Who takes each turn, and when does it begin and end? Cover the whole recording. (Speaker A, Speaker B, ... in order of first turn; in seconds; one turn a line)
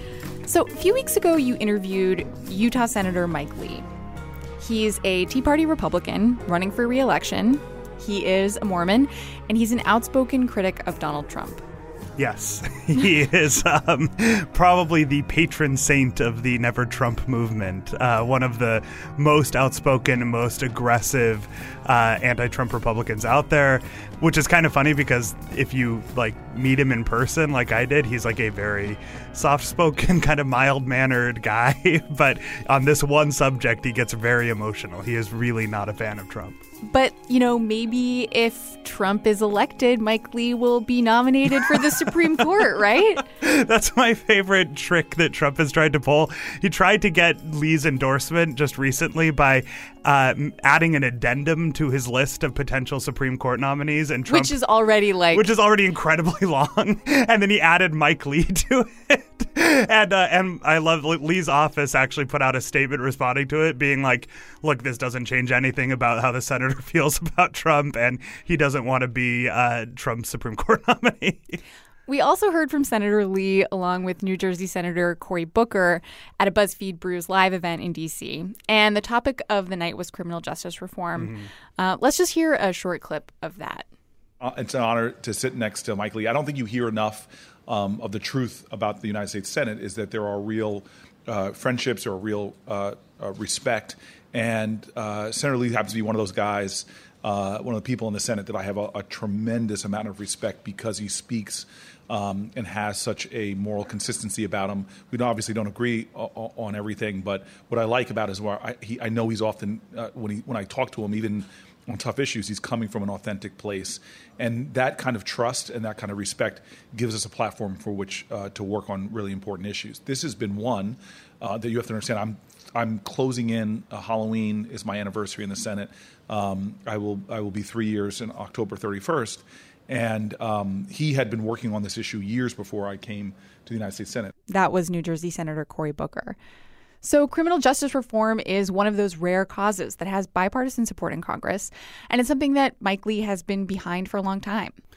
Speaker A: 0.4-3.9
Speaker A: 4.6-11.6
Speaker B: 12.2-36.6
Speaker A: 36.8-43.3
Speaker B: 43.4-54.6
Speaker A: 54.3-55.5
Speaker B: 55.3-71.6
Speaker A: 72.1-83.9
Speaker C: 84.4-134.3
Speaker A: 134.5-136.4
Speaker A: 137.0-144.7